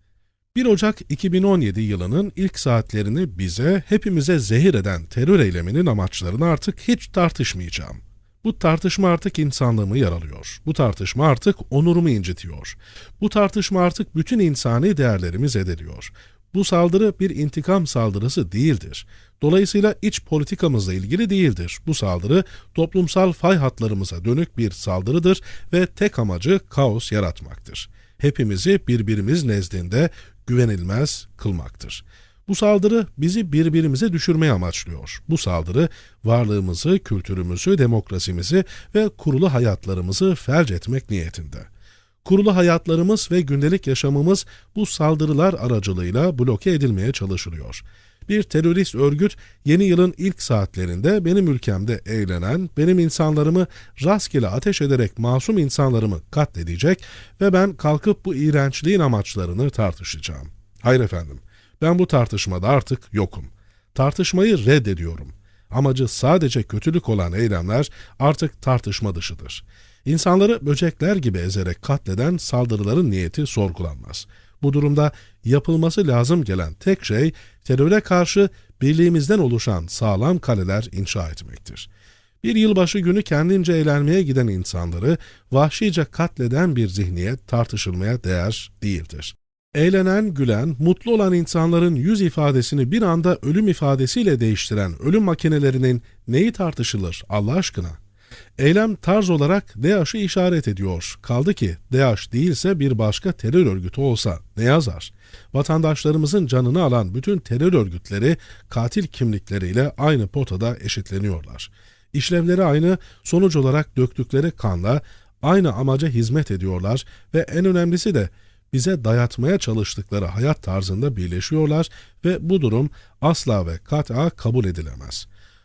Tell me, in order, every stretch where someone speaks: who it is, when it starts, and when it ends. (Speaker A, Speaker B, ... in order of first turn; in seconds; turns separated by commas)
Speaker A: 0.5-41.7, Speaker A: 42.2-81.9, Speaker A: 82.4-98.0, Speaker A: 98.6-125.3